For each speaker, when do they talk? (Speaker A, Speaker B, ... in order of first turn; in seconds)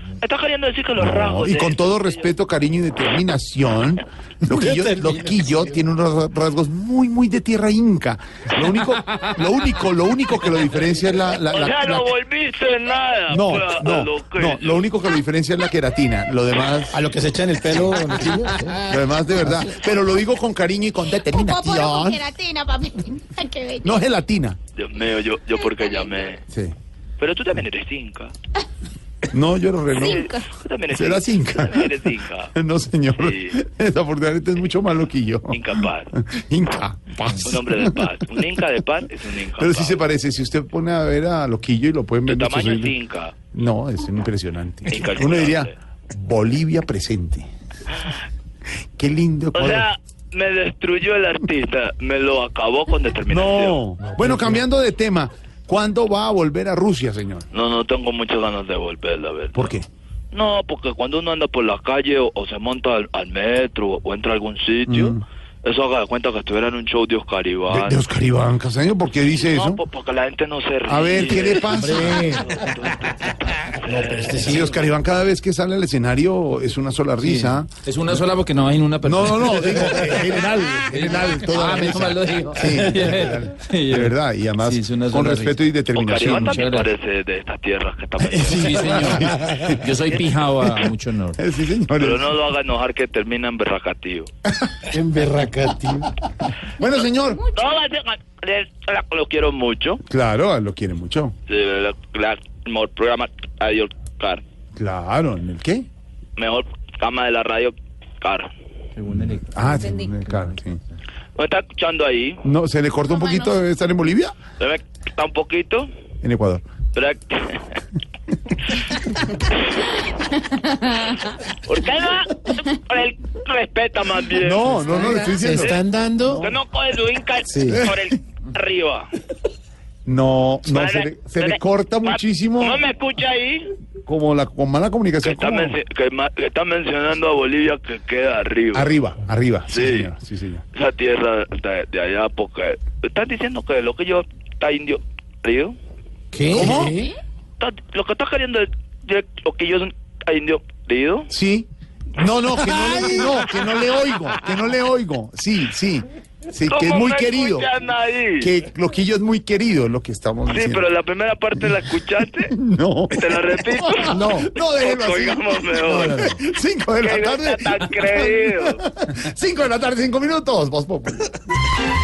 Speaker A: 0.2-2.3, 11.5-14.9, 24.7-26.4, 27.2-28.3, 29.9-32.5, 33.1-33.6, 35.5-36.1, 37.4-40.0, 42.2-43.3, 44.9-45.7, 49.5-53.8, 57.5-59.7, 60.3-68.0, 69.3-74.7, 85.9-89.2, 92.0-94.3, 97.5-100.0, 101.5-104.4, 106.4-108.5, 111.4-112.4, 114.6-115.9, 116.9-117.8, 118.7-119.7, 120.9-129.1, 130.7-133.7, 135.2-138.9, 139.7-140.1, 140.7-145.8, 147.6-151.3, 152.6-153.4, 156.7-158.5, 160.4-162.5, 163.1-166.3, 167.0-168.8
Speaker B: 1.0-12.1, 13.3-17.0, 18.8-22.3, 23.8-24.6, 26.5-26.7, 29.3-30.4, 30.9-38.6, 39.5-42.9, 43.5-47.5, 49.0-49.9, 53.3-57.5, 59.5-59.9, 64.9-65.2, 67.7-69.8, 70.8-72.5, 74.3-77.7, 79.0-86.8, 88.2-90.0, 91.3-92.3, 94.5-94.9, 96.7-97.4, 100.0-101.3, 104.8-105.9, 109.1-110.8, 112.4-114.3, 116.2-116.6, 124.3-126.6, 127.7-128.1, 130.1-132.8, 134.1-135.8, 138.7-140.6, 146.5-147.0, 151.3-157.7, 158.4-160.9, 162.5-171.3
Speaker C: 4.5-5.8, 16.9-18.8, 71.7-72.5, 73.8-74.7, 94.9-96.1, 124.8-126.4, 127.5-127.8, 146.3-147.1, 164.1-164.5
Speaker D: 21.2-24.0, 25.7-26.2
Speaker E: 77.3-80.2, 80.9-85.6, 86.2-86.9, 88.5-91.4, 109.0-109.7